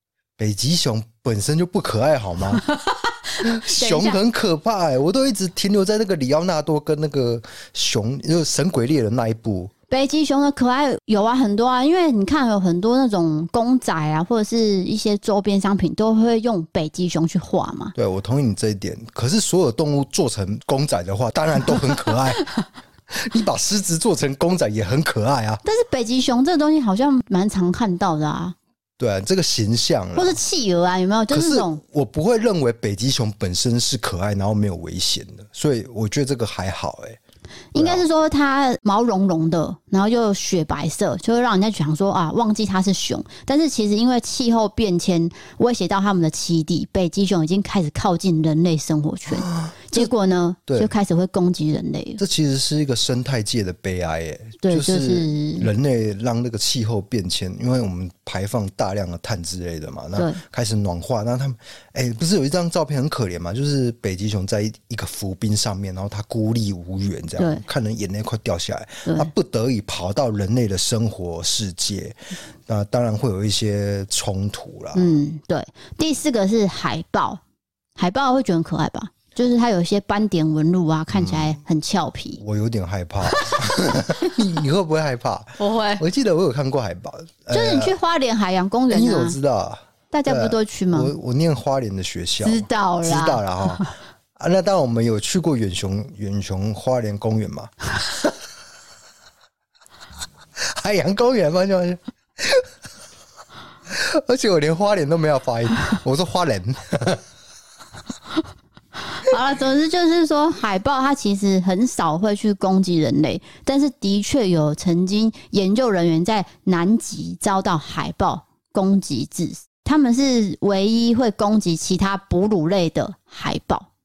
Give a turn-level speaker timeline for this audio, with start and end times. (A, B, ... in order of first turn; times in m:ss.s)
0:00.4-0:02.6 A
0:02.6-0:04.2 B
0:03.4-0:09.7 A
0:09.9-0:18.0 B
0:18.0-0:22.4 A
0:23.1-0:25.6 A
0:25.6-0:28.6 B
0:29.0-0:30.4 A
0:30.2-0:31.8 B
0:31.3-0:37.2 A
0:37.7-0:52.2 B
0:37.8-0:38.0 A
0:49.3-0:50.1 A
0:50.7-0:50.9 A
0:52.2-1:15.2 A
0:54.6-0:55.7 B
1:07.4-1:07.6 B
1:09.0-1:09.3 B
1:14.9-1:17.4 B
1:18.0-1:22.4 B
1:21.1-1:21.6 A
1:22.4-1:28.0 A
1:23.3-1:23.6 B
1:25.6-1:26.0 B
1:27.5-1:29.4 B
1:28.9-1:38.3 A
1:30.1-1:31.1 B
1:32.4-1:33.9 B
1:40.6-1:42.7 A
1:43.9-1:47.2 A
1:49.1-2:03.9 B